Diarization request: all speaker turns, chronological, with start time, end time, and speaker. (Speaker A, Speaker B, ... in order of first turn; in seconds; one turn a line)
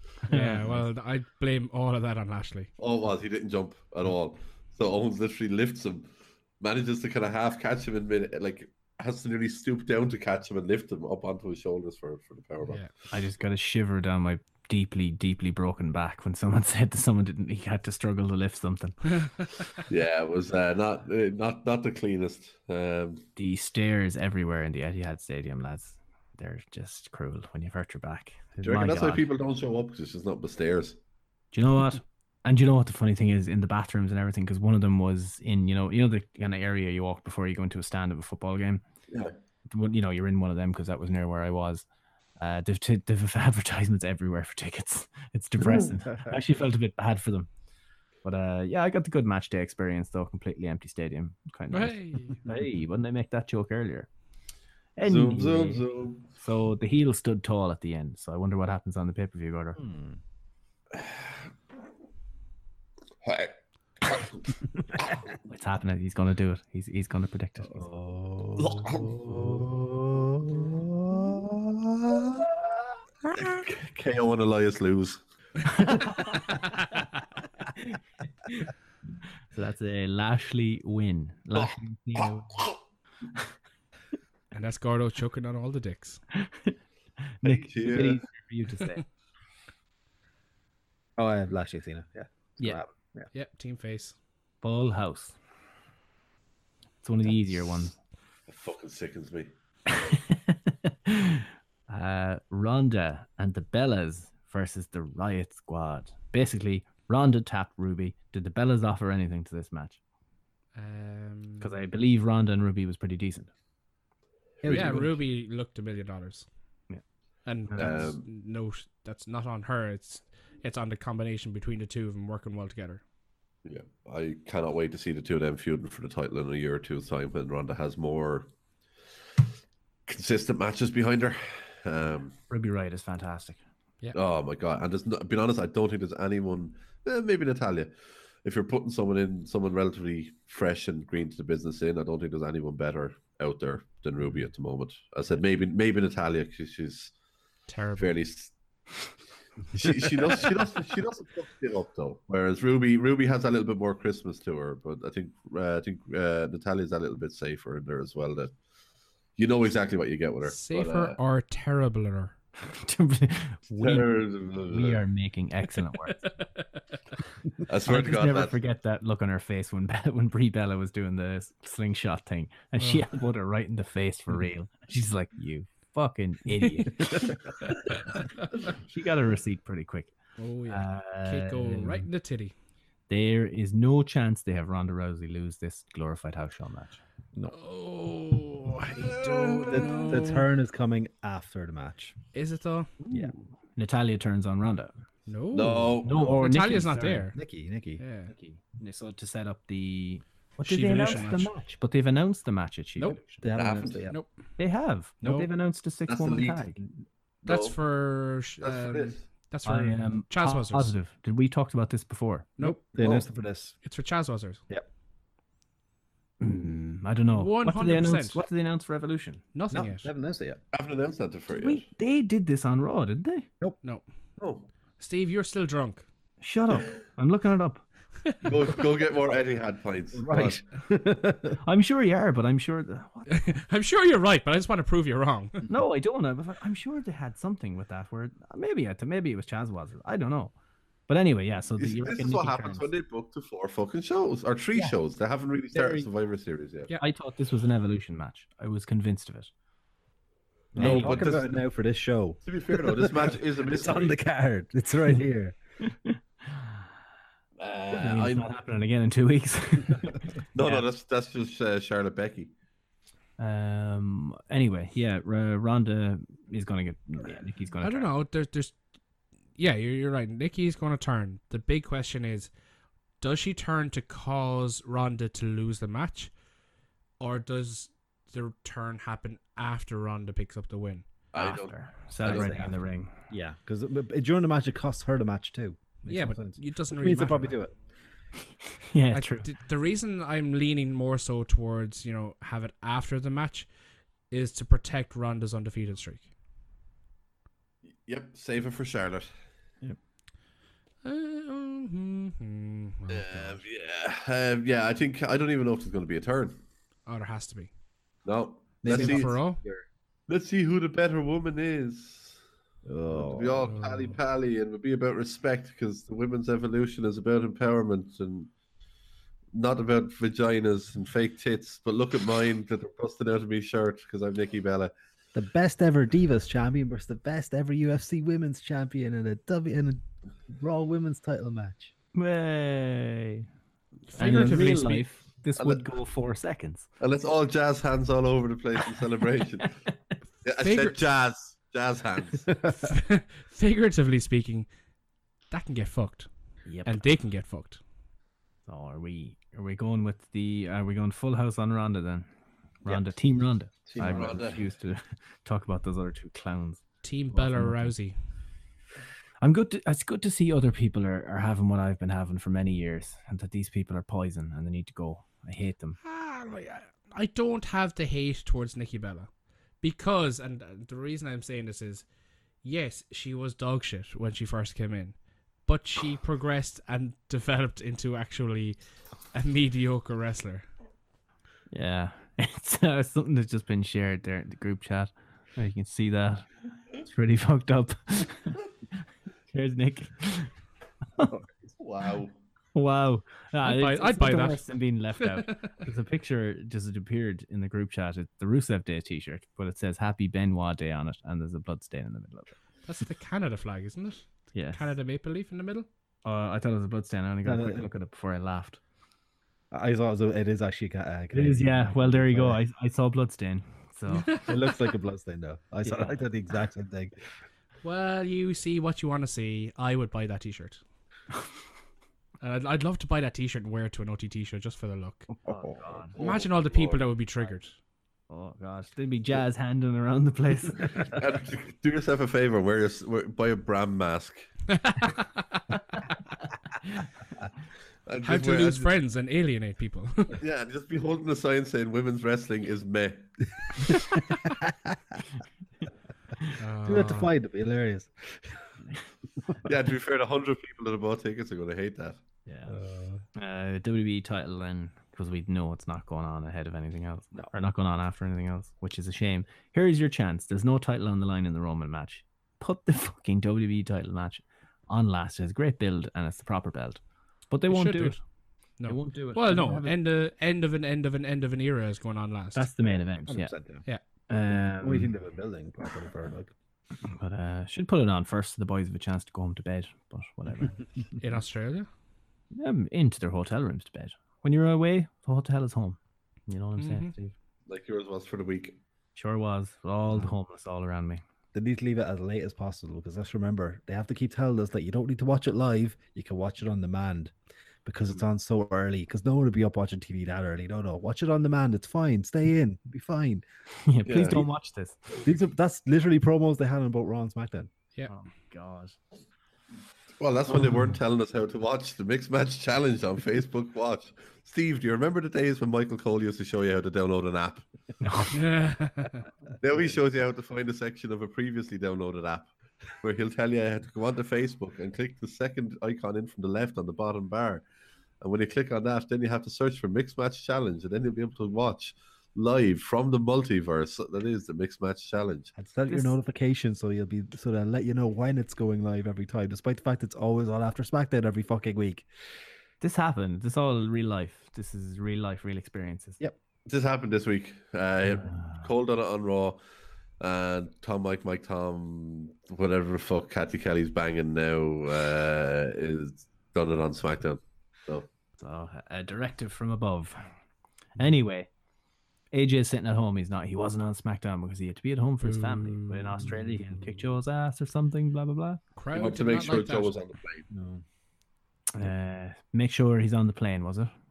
Speaker A: 0.3-2.7
Speaker B: 2.8-6.1
Speaker B: 6.6-12.8
Speaker C: 13.1-19.2
Speaker B: 19.9-23.2
Speaker C: 23.4-29.2
Speaker B: 28.6-31.0
Speaker C: 31.5-38.8
Speaker C: 39.7-41.8
Speaker C: 42.4-47.5
Speaker C: 48.2-54.1
Speaker A: 51.7-52.4
Speaker C: 55.0-55.8
Speaker B: 55.0-56.2
Speaker C: 56.4-59.8
Speaker D: 59.8-60.2
Speaker B: 63.2-63.5
Speaker B: 64.0-64.3
Speaker C: 65.4-67.8
Speaker D: 67.7-71.4
Speaker B: 68.6-69.6
Speaker B: 71.4-72.5
Speaker D: 72.1-72.4
Speaker B: 73.3-75.2
Speaker C: 75.6-76.7
Speaker C: 77.7-78.7
Speaker C: 79.5-82.7
Speaker A: 84.5-86.2
Speaker C: 86.3-86.8
Speaker C: 87.4-89.0
Speaker B: 87.4-88.2
Speaker D: 91.2-93.3
Speaker A: 93.3-94.1
Speaker C: 94.6-95.3
Speaker C: 97.0-97.9
Speaker B: 98.5-99.5
Speaker C: 99.9-110.0
Speaker A: 110.7-111.7
Speaker C: 111.6-113.5
Speaker D: 114.6-115.2
Speaker B: 114.6-115.0
Speaker A: 114.7-116.5
Speaker A: 117.5-123.0
Speaker C: 117.7-118.0
Speaker B: 117.8-118.2
Speaker B: 123.6-128.5
Speaker B: 130.1-132.3
Speaker C: 132.5-133.6
Speaker B: 134.1-137.9
Speaker B: 138.4-147.1
Speaker A: 147.7-148.1
Speaker B: 148.0-148.5
Speaker B: 149.7-158.5
Speaker B: 159.4-161.2
Speaker A: 160.4-162.3
Speaker C: 162.6-166.2
Speaker B: 163.8-165.0
Speaker A: 166.1-166.8
Speaker B: 167.7-168.6
Speaker C: 167.8-177.3
Speaker A: 172.8-173.1
Speaker C: 178.7-180.1
Speaker A: 180.4-182.5
Speaker C: 180.7-182.1
Speaker C: 183.1-187.0
Speaker A: 187.5-190.4
Speaker B: 189.0-190.0
Speaker D: 189.7-192.2
Speaker A: 192.3-192.9
Speaker C: 193.1-194.9
Speaker A: 195.3-197.4
Speaker B: 195.5-196.3
Speaker C: 196.0-197.3
Speaker D: 197.3-198.0
Speaker A: 198.0-198.3
Speaker C: 198.3-203.4
Speaker A: 200.6-201.5
Speaker D: 203.4-204.2
Speaker B: 203.5-204.1
Speaker C: 204.6-206.8
Speaker A: 205.2-205.5
Speaker B: 206.1-206.8
Speaker B: 207.4-207.8
Speaker A: 207.4-210.9
Speaker B: 208.6-209.2
Speaker C: 209.6-212.6
Speaker A: 212.6-212.9
Speaker D: 212.6-213.7
Speaker B: 213.0-213.2
Speaker A: 213.8-214.6
Speaker C: 216.4-219.4
Speaker A: 217.3-218.4
Speaker A: 219.5-220.1
Speaker D: 219.7-220.6
Speaker B: 220.7-221.8
Speaker C: 221.5-223.5
Speaker B: 224.4-224.7
Speaker A: 225.0-226.1
Speaker C: 226.4-227.8
Speaker B: 228.4-230.6
Speaker D: 230.2-231.6
Speaker C: 231.6-233.4
Speaker A: 233.3-235.6
Speaker C: 235.7-240.5
Speaker C: 241.1-242.9
Speaker B: 241.8-246.9
Speaker C: 245.7-246.1
Speaker C: 246.9-249.5
Speaker D: 250.7-255.5
Speaker C: 250.8-251.4
Speaker B: 250.8-251.5
Speaker B: 252.4-254.2
Speaker C: 255.8-256.9
Speaker B: 257.6-258.5
Speaker C: 257.9-260.9
Speaker B: 260.5-262.5
Speaker C: 263.4-268.1
Speaker A: 267.8-268.8
Speaker A: 269.6-272.5
Speaker A: 273.2-276.3
Speaker A: 277.2-281.1
Speaker B: 281.3-282.7
Speaker C: 281.4-283.1
Speaker D: 282.2-282.7
Speaker D: 283.3-287.7
Speaker A: 286.1-287.5
Speaker C: 288.9-289.5
Speaker A: 289.1-293.7
Speaker A: 294.3-296.2
Speaker B: 298.1-299.3
Speaker A: 301.0-303.6
Speaker B: 303.1-306.6
Speaker A: 307.1-307.7
Speaker B: 308.2-309.3
Speaker D: 308.8-309.8
Speaker A: 308.9-309.6
Speaker B: 310.3-312.4
Speaker D: 312.9-313.7
Speaker B: 313.1-318.5
Speaker A: 313.7-314.2
Speaker B: 319.5-324.9
Speaker D: 325.3-331.9
Speaker C: 332.1-333.5
Speaker A: 334.1-335.1
Speaker C: 334.1-336.9
Speaker B: 335.6-335.9
Speaker B: 337.0-339.7
Speaker B: 340.4-342.5
Speaker A: 340.6-341.0
Speaker D: 342.5-342.8
Speaker A: 342.8-344.7
Speaker A: 345.5-346.3
Speaker C: 346.7-347.0
Speaker A: 346.9-347.8
Speaker C: 348.7-352.3
Speaker C: 352.8-356.8
Speaker D: 353.9-354.4
Speaker B: 353.9-354.6
Speaker A: 357.0-358.1
Speaker C: 357.3-357.9
Speaker C: 359.4-366.0
Speaker A: 366.0-369.3
Speaker A: 369.8-372.0
Speaker A: 372.6-378.8
Speaker A: 379.3-380.6
Speaker C: 381.7-386.5
Speaker C: 387.0-388.6
Speaker C: 389.5-390.5
Speaker B: 391.2-392.4
Speaker C: 392.7-402.6
Speaker A: 393.6-394.7
Speaker A: 395.2-395.7
Speaker A: 402.9-405.9
Speaker C: 404.5-404.9
Speaker C: 406.2-408.8
Speaker D: 407.4-407.9
Speaker D: 409.7-412.6
Speaker C: 411.3-414.4
Speaker A: 414.2-414.6
Speaker D: 414.4-417.1
Speaker C: 415.8-416.1
Speaker A: 417.8-420.8
Speaker A: 422.4-425.3
Speaker C: 425.5-426.2
Speaker B: 425.5-427.0
Speaker A: 426.2-427.7
Speaker C: 428.3-431.1
Speaker B: 431.0-434.5
Speaker A: 434.7-435.6
Speaker B: 438.1-438.9
Speaker A: 438.2-440.4
Speaker B: 440.4-443.3
Speaker D: 444.6-444.9
Speaker A: 446.6-447.3
Speaker D: 446.8-448.6
Speaker B: 449.6-452.2
Speaker C: 452.4-452.8
Speaker D: 452.7-453.2
Speaker C: 453.3-468.2
Speaker A: 467.7-468.2
Speaker A: 468.8-472.7
Speaker C: 468.8-469.9
Speaker C: 472.5-473.5
Speaker D: 473.2-473.8
Speaker C: 474.3-475.1
Speaker D: 474.5-476.5
Speaker C: 477.0-480.8
Speaker A: 481.2-481.9
Speaker C: 482.5-487.3
Speaker A: 486.8-487.1
Speaker B: 487.7-488.8
Speaker C: 489.1-491.2
Speaker D: 491.5-497.3
Speaker D: 497.8-503.4
Speaker C: 503.8-505.1
Speaker B: 504.1-504.4
Speaker D: 505.2-507.7
Speaker C: 508.1-509.0
Speaker B: 510.2-517.6
Speaker C: 518.0-518.4
Speaker A: 518.3-519.2
Speaker B: 519.6-527.6
Speaker B: 528.2-535.5
Speaker D: 535.5-542.1
Speaker C: 535.9-536.1
Speaker C: 542.8-546.2
Speaker B: 546.6-549.6
Speaker C: 548.1-548.7
Speaker B: 550.2-558.1
Speaker C: 558.4-560.2
Speaker C: 561.0-561.5
Speaker C: 562.3-568.6
Speaker A: 565.2-566.2
Speaker D: 566.3-566.8
Speaker A: 568.8-570.0
Speaker B: 568.9-570.5
Speaker D: 570.5-570.8
Speaker C: 571.7-573.9